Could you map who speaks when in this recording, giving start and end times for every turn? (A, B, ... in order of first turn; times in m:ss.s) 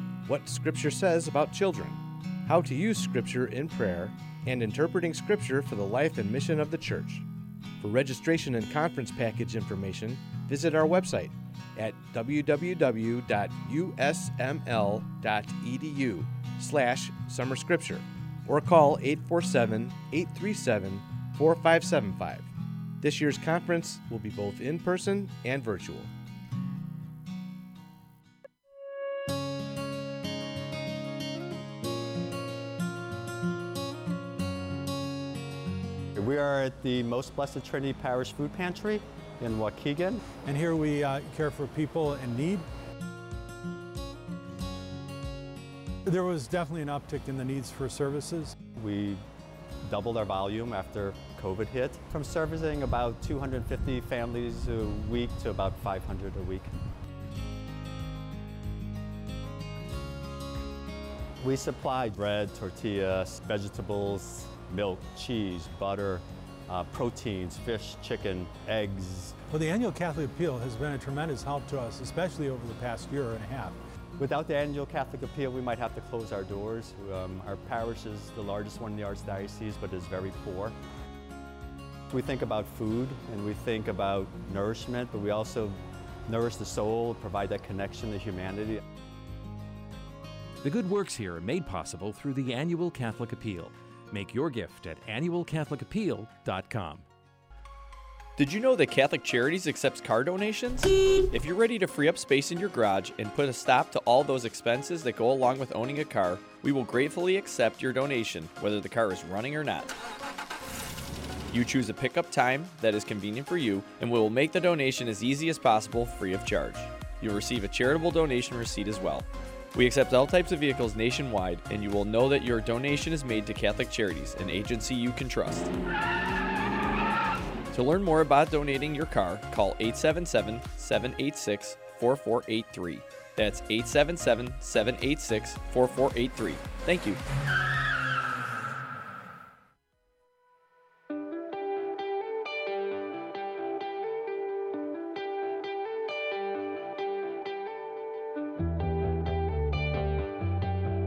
0:00.3-0:07.3 A
0:07.8-0:22.5 A
0:23.0-0:26.1 A
0:36.2-0:40.2 B
0:40.4-0:42.7 C
0:46.1-0:48.6 C
0:48.8-0:49.2 B
0:49.9-0:56.7 B
1:01.4-1:09.4 B
1:09.5-1:13.8 C
1:14.2-1:20.8 B
1:22.1-1:28.8 B
1:30.6-1:37.0 D
1:38.4-1:50.0 E
1:51.5-2:05.7 E
2:07.7-2:17.2 E